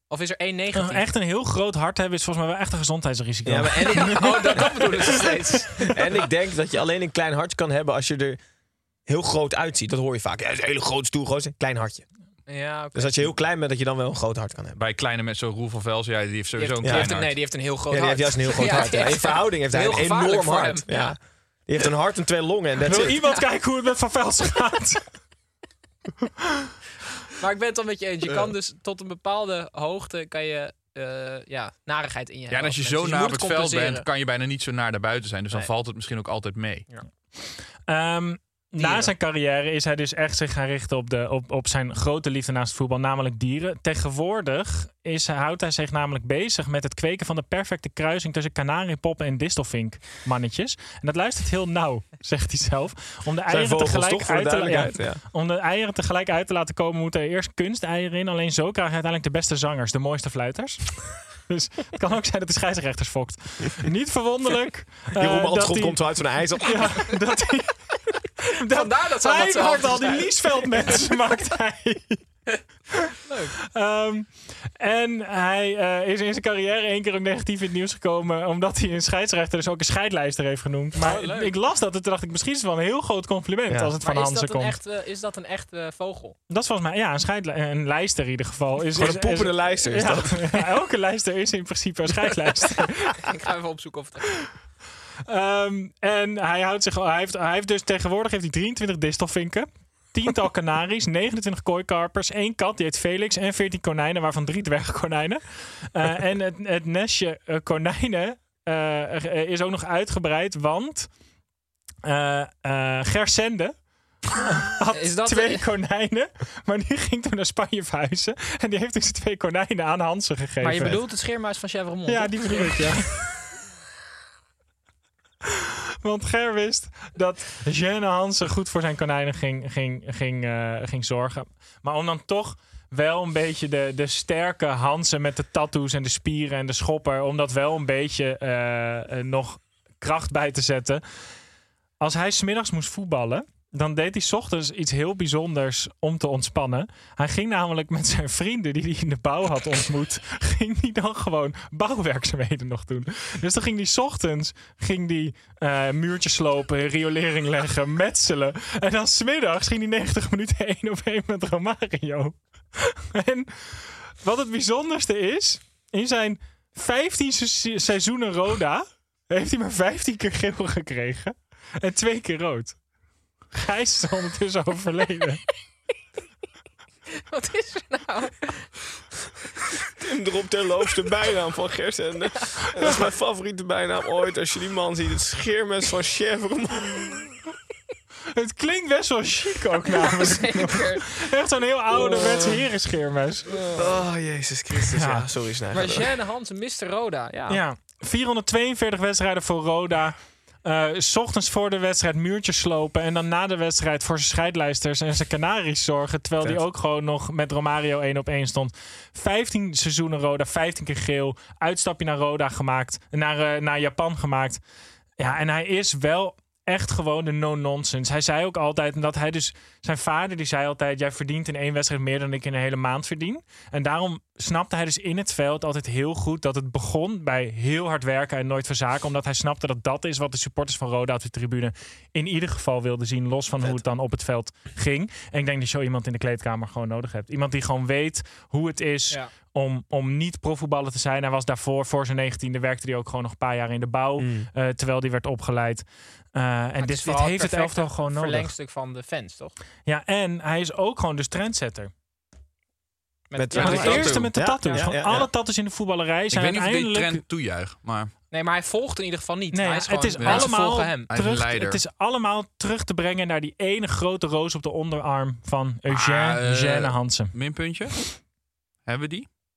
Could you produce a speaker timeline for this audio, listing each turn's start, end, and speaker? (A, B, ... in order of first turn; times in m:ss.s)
0:00.1-0:01.0 A
0:00.7-0:05.1 B
0:03.4-0:04.0 C
0:03.7-0:06.2 A
0:05.9-0:08.4 C
0:09.1-0:12.0 C
0:12.5-0:13.2 A
0:12.9-0:14.8 C
0:14.8-0:17.4 D
0:16.6-0:21.1 A
0:16.8-0:17.1 C
0:17.9-0:23.2 C
0:22.8-0:25.2 B
0:27.4-0:34.0 A
0:32.5-0:36.9 D
0:37.4-1:12.3 B
0:38.8-0:39.1 A
0:53.5-0:55.2 C
1:05.2-1:06.8 C
1:08.7-1:11.2 A
1:13.3-1:13.6 A
1:13.7-1:24.8 B
1:21.0-1:21.5 A
1:23.7-1:23.9 C
1:24.0-1:26.4 A
1:26.5-1:33.2 B
1:28.9-1:30.5 C
1:33.1-1:34.5 A
1:35.2-1:51.1 B
1:52.0-2:01.0 B
1:54.9-1:55.6 A
2:00.6-2:03.2 A
2:02.1-2:03.4 B
2:06.0-2:21.0 B
2:22.0-2:52.8 B
2:53.5-2:55.4 B
2:57.3-2:58.8 A
3:00.0-3:07.2 C
3:08.3-3:13.6 B
3:09.8-3:11.1 A
3:12.0-3:12.5 C
3:13.7-3:16.1 C
3:14.9-3:15.3 B
3:15.7-3:17.6 A
3:17.5-3:34.6 B
3:35.2-4:08.5 B
4:04.2-4:04.5 C
4:06.8-4:09.6 A
4:09.8-4:11.9 B
4:13.3-4:14.9 A
4:13.4-4:15.3 C
4:13.5-4:14.3 D
4:13.5-4:17.2 B
4:16.3-4:18.1 D
4:18.3-4:21.1 A
4:19.5-4:27.3 B
4:20.2-4:21.8 D
4:25.9-4:28.2 D
4:28.8-4:29.3 D